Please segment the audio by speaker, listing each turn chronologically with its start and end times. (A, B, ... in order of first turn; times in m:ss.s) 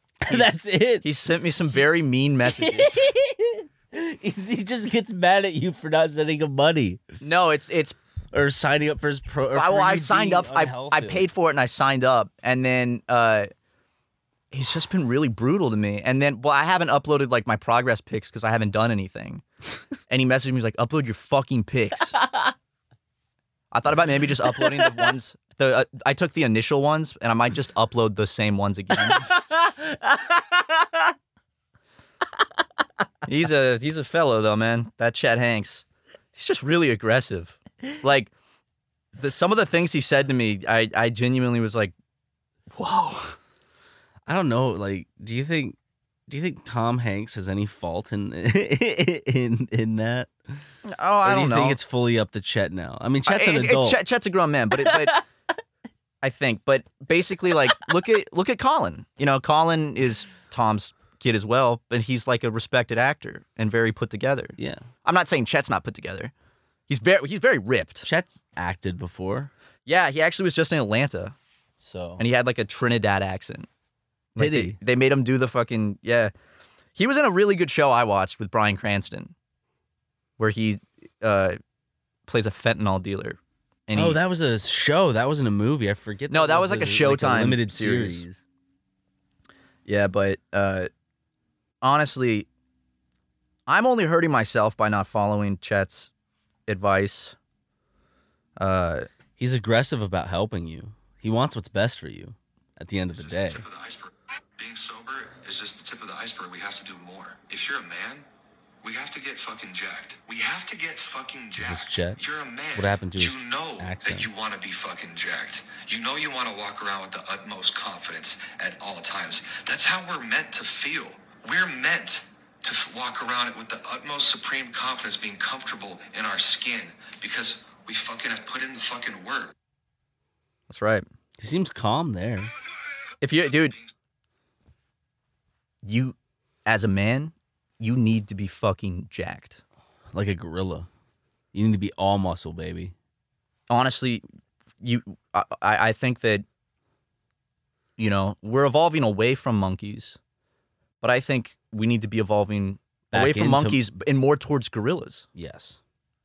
0:00.2-0:01.1 A
0:00.3-0:03.0 B
0:02.5-0:07.0 A
0:07.2-0:08.0 B
0:08.3-0:11.3 A
0:09.6-0:13.5 B
0:14.5-0:19.4 B
0:20.1-0:22.2 B
0:23.7-0:29.3 B
0:24.6-0:24.9 A
0:29.1-0:30.2 A
0:33.3-0:35.8 B
0:36.3-0:38.3 B
0:39.2-0:41.9 B
0:42.7-0:43.4 B
0:44.3-0:45.8 A
0:46.3-0:50.6 A
0:50.9-0:51.8 B
0:51.2-0:54.0 A
0:53.3-0:55.2 B
0:54.8-0:55.1 A
0:56.2-1:06.3 B
1:04.6-1:04.8 A
1:06.9-1:08.1 B
1:08.0-1:09.5 A
1:09.9-1:11.4 B
1:11.8-1:12.2 A
1:12.2-1:13.7 B
1:14.3-1:16.3 B
1:14.4-1:14.8 A
1:17.0-1:19.3 B
1:20.4-1:21.6 B
1:22.3-1:24.2 B
1:23.9-1:28.4 A
1:26.3-1:28.2 B
1:29.9-1:30.9 B
1:31.8-1:32.5 B
1:33.7-1:36.1 B
1:36.7-1:37.4 B
1:38.6-1:39.1 B
1:39.4-1:43.6 A
1:43.1-1:48.3 C
1:48.8-2:09.5 C
1:51.6-1:52.2 A
1:52.7-1:54.3 A
2:10.7-2:11.0 B
2:11.4-2:12.5 A
2:13.2-2:13.7 B
2:15.8-2:16.1 B
2:16.7-2:19.6 B
2:20.1-2:20.9 A
2:21.5-2:22.9 A
2:23.7-2:24.2 B
2:24.8-2:26.4 B
2:28.0-2:30.2 B
2:31.0-2:35.3 B
2:33.1-2:33.8 A
2:35.3-2:35.8 A